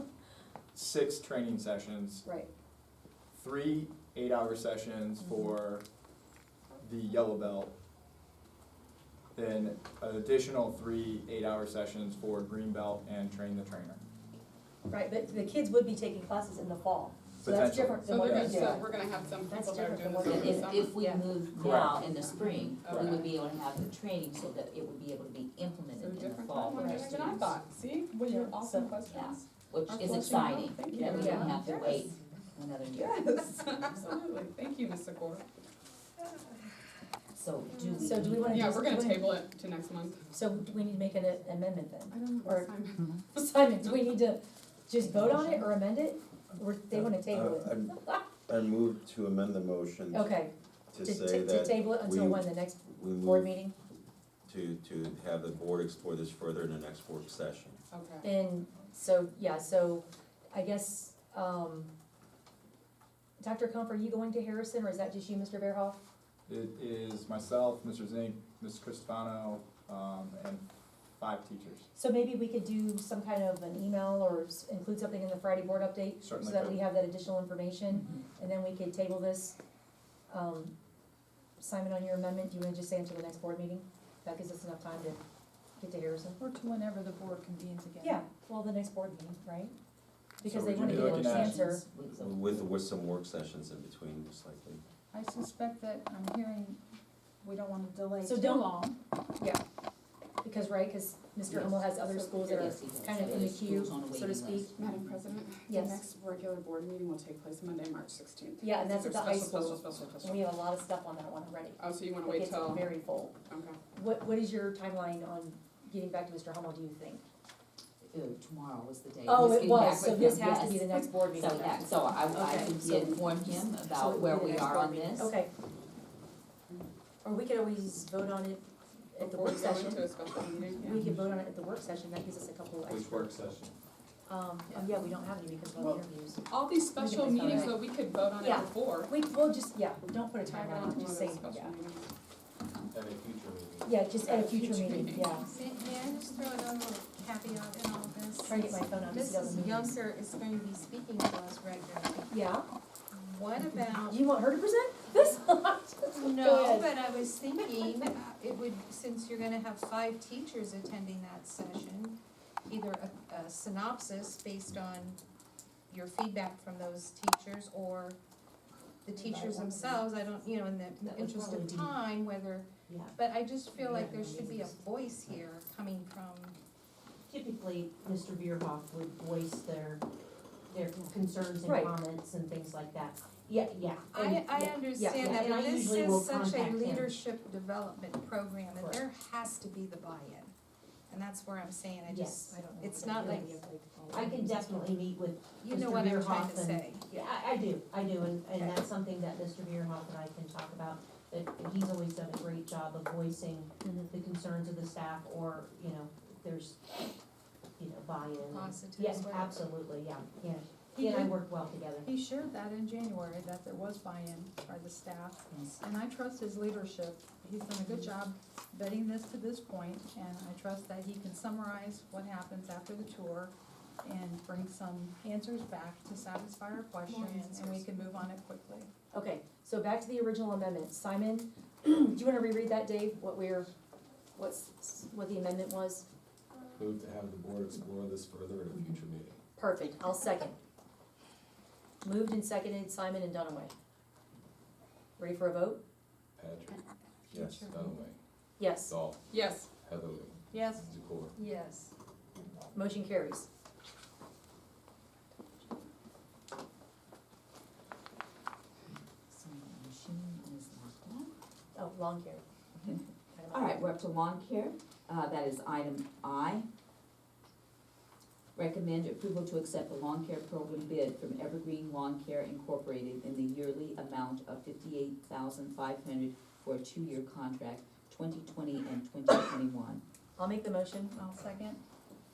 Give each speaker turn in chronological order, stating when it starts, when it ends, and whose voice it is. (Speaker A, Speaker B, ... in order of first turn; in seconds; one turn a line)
Speaker A: 0.7-2.2
Speaker B: 2.2-2.5
Speaker A: 3.3-5.8
Speaker A: 6.8-7.7
Speaker A: 9.3-14.0
Speaker B: 14.9-18.9
Speaker A: 17.4-18.8
Speaker C: 18.1-21.2
Speaker B: 19.5-21.2
Speaker D: 20.3-27.5
Speaker A: 21.5-22.1
Speaker C: 22.1-23.4
Speaker C: 26.0-32.0
Speaker B: 28.3-28.9
Speaker D: 29.1-34.1
Speaker B: 31.0-31.5
Speaker C: 32.9-35.5
Speaker D: 37.4-38.9
Speaker C: 37.8-40.3
Speaker B: 38.0-39.4
Speaker B: 40.3-42.7
Speaker C: 42.1-43.4
Speaker B: 43.3-48.2
Speaker D: 45.0-45.6
Speaker E: 46.9-47.9
Speaker E: 48.5-50.3
Speaker B: 50.1-53.8
Speaker E: 50.9-53.5
Speaker E: 54.5-57.8
Speaker C: 57.9-58.3
Speaker B: 58.2-61.9
Speaker B: 63.4-66.0
Speaker A: 66.5-70.7
Speaker A: 71.2-71.9
Speaker B: 72.0-79.6
Speaker A: 76.2-76.8
Speaker B: 80.3-80.7
Speaker B: 81.6-85.2
Speaker B: 85.8-86.4
Speaker F: 86.4-88.2
Speaker B: 88.0-89.8
Speaker B: 90.4-91.8
Speaker A: 90.4-91.6
Speaker D: 90.8-92.7
Speaker E: 92.2-94.8
Speaker F: 95.1-96.8
Speaker F: 97.4-99.0
Speaker B: 98.2-98.7
Speaker B: 100.4-104.7
Speaker D: 101.5-101.8
Speaker C: 102.0-102.5
Speaker D: 102.4-105.1
Speaker C: 104.8-110.5
Speaker B: 105.7-106.0
Speaker B: 108.6-113.3
Speaker C: 111.8-113.8
Speaker B: 113.9-117.2
Speaker D: 118.0-125.3
Speaker B: 119.3-125.5
Speaker B: 127.2-130.0
Speaker C: 129.2-131.0
Speaker B: 130.8-133.3
Speaker A: 132.9-133.2
Speaker B: 134.3-137.8
Speaker C: 134.7-135.0
Speaker C: 135.8-139.2
Speaker B: 138.4-141.8
Speaker C: 140.5-142.1
Speaker G: 142.9-144.3
Speaker B: 143.8-145.5
Speaker C: 144.3-145.3
Speaker H: 145.4-152.3
Speaker B: 148.4-150.0
Speaker B: 152.3-152.7
Speaker H: 153.1-154.2
Speaker B: 154.1-156.9
Speaker H: 156.1-165.2
Speaker B: 157.6-158.1
Speaker H: 165.9-168.2
Speaker H: 169.1-176.6
Speaker I: 169.3-170.1
Speaker I: 171.0-172.0
Speaker I: 172.9-173.2
Speaker I: 173.8-174.7
Speaker I: 177.3-180.0
Speaker I: 180.7-187.2
Speaker B: 181.7-181.9
Speaker H: 184.1-190.5
Speaker B: 184.9-185.4
Speaker H: 191.1-193.6
Speaker I: 192.1-192.5
Speaker B: 192.5-194.9
Speaker I: 194.1-207.2
Speaker H: 195.6-197.1
Speaker B: 203.8-204.1
Speaker I: 207.8-212.1
Speaker H: 208.4-209.7
Speaker F: 211.0-211.4
Speaker F: 212.0-228.9
Speaker D: 215.5-215.8
Speaker H: 227.1-227.9
Speaker B: 229.1-233.7
Speaker B: 234.4-236.1
Speaker G: 236.8-239.4
Speaker B: 239.6-240.6
Speaker B: 242.0-243.7
Speaker B: 245.2-245.8
Speaker G: 246.4-246.8
Speaker H: 247.3-247.9
Speaker G: 247.5-248.2
Speaker B: 248.6-248.9
Speaker G: 248.9-249.2
Speaker C: 249.3-249.7
Speaker G: 249.7-251.3
Speaker F: 250.5-250.8
Speaker B: 251.4-251.9
Speaker B: 252.7-253.5
Speaker D: 259.3-261.3
Speaker B: 261.8-263.9
Speaker D: 263.5-266.7
Speaker D: 268.6-280.0
Speaker B: 280.4-281.2
Speaker F: 281.1-281.8